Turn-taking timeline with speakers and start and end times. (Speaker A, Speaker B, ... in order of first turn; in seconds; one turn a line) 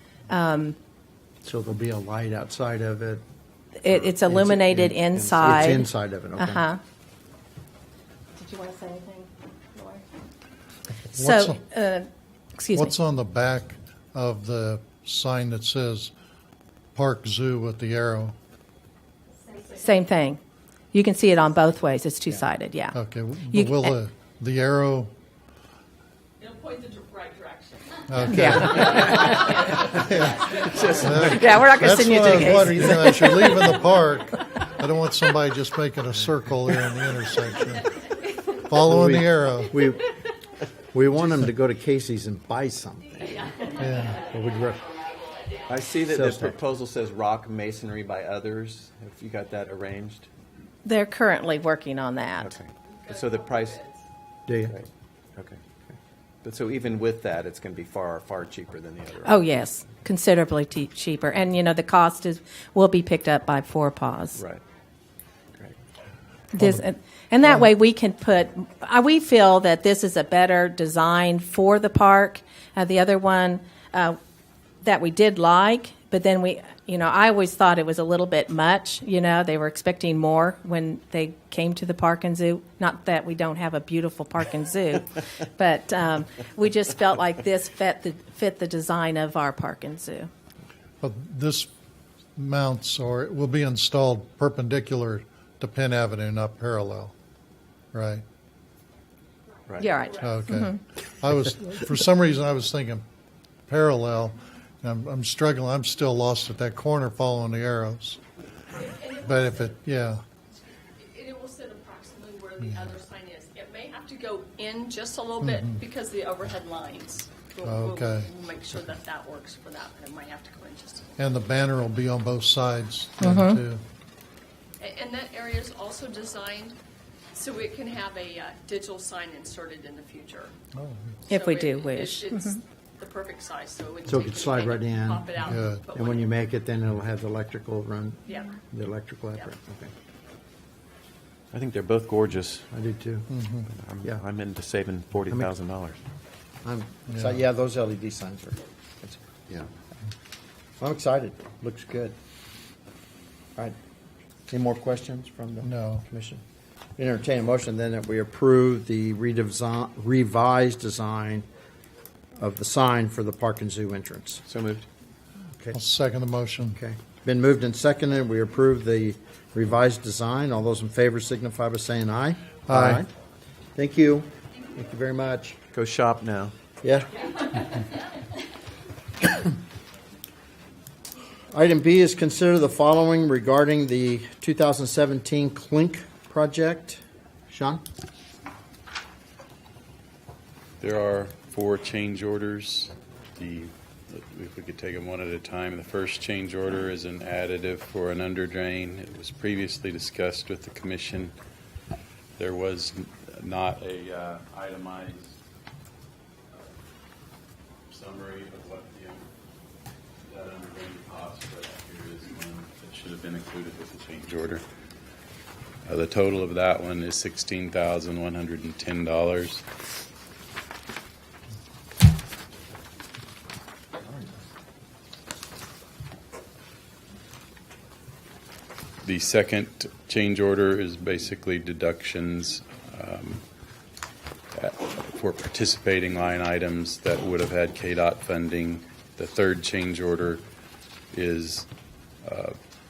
Speaker A: 0.3-0.8
Speaker B: 1.4-3.2
Speaker A: 3.8-6.8
Speaker B: 3.9-6.6
Speaker A: 8.3-10.0
Speaker C: 11.1-11.6
Speaker A: 11.1-12.9
Speaker C: 12.7-16.1
Speaker C: 16.9-18.4
Speaker A: 19.5-20.4
Speaker A: 20.9-23.0
Speaker C: 22.9-25.1
Speaker A: 23.5-23.9
Speaker D: 26.4-31.1
Speaker C: 28.1-29.2
Speaker A: 28.3-29.5
Speaker E: 28.5-29.9
Speaker C: 29.9-37.9
Speaker E: 30.6-31.6
Speaker A: 31.2-33.3
Speaker C: 38.7-39.8
Speaker B: 38.8-40.0
Speaker B: 40.9-43.6
Speaker D: 43.3-45.8
Speaker C: 43.8-44.2
Speaker B: 44.2-44.8
Speaker E: 45.7-50.3
Speaker B: 46.1-46.5
Speaker A: 50.8-52.6
Speaker E: 52.4-53.8
Speaker D: 52.9-54.0
Speaker B: 54.5-54.8
Speaker E: 54.7-55.6
Speaker E: 56.4-59.4
Speaker A: 59.2-64.4
Speaker E: 64.4-64.6
Speaker A: 66.5-74.2
Speaker A: 74.8-90.3
Speaker C: 91.0-91.7
Speaker C: 92.4-97.1
Speaker C: 97.9-98.2
Speaker D: 99.8-100.4
Speaker A: 99.8-100.8
Speaker C: 100.2-103.0
Speaker C: 103.7-108.2
Speaker D: 108.7-109.7
Speaker C: 109.2-110.2
Speaker D: 110.8-121.2
Speaker C: 112.6-113.0
Speaker C: 115.4-115.8
Speaker C: 117.6-118.3
Speaker C: 121.2-123.8
Speaker A: 123.2-123.6
Speaker D: 124.8-126.8
Speaker D: 127.3-130.5
Speaker C: 130.8-131.2
Speaker D: 131.3-136.3
Speaker A: 131.3-132.6
Speaker B: 134.1-135.3
Speaker C: 135.5-135.9
Speaker B: 135.9-139.9
Speaker D: 138.3-138.7
Speaker E: 141.5-142.7
Speaker B: 142.7-143.3
Speaker C: 143.3-143.7
Speaker E: 143.7-146.0
Speaker B: 146.6-149.2
Speaker C: 147.1-147.4
Speaker B: 150.8-152.2
Speaker B: 154.5-156.4
Speaker C: 155.6-156.0
Speaker B: 157.0-161.5
Speaker B: 162.4-164.4
Speaker E: 164.5-164.9
Speaker C: 165.7-166.8
Speaker B: 166.8-173.1
Speaker C: 172.7-173.0
Speaker B: 173.8-175.6
Speaker E: 175.7-176.6
Speaker B: 176.8-177.5
Speaker B: 181.5-187.8
Speaker F: 190.8-201.3
Speaker F: 202.4-205.3
Speaker F: 207.9-209.3
Speaker F: 210.2-214.6
Speaker F: 215.8-219.6
Speaker F: 229.0-233.4
Speaker F: 234.5-240.4
Speaker F: 241.1-241.7
Speaker F: 242.2-242.6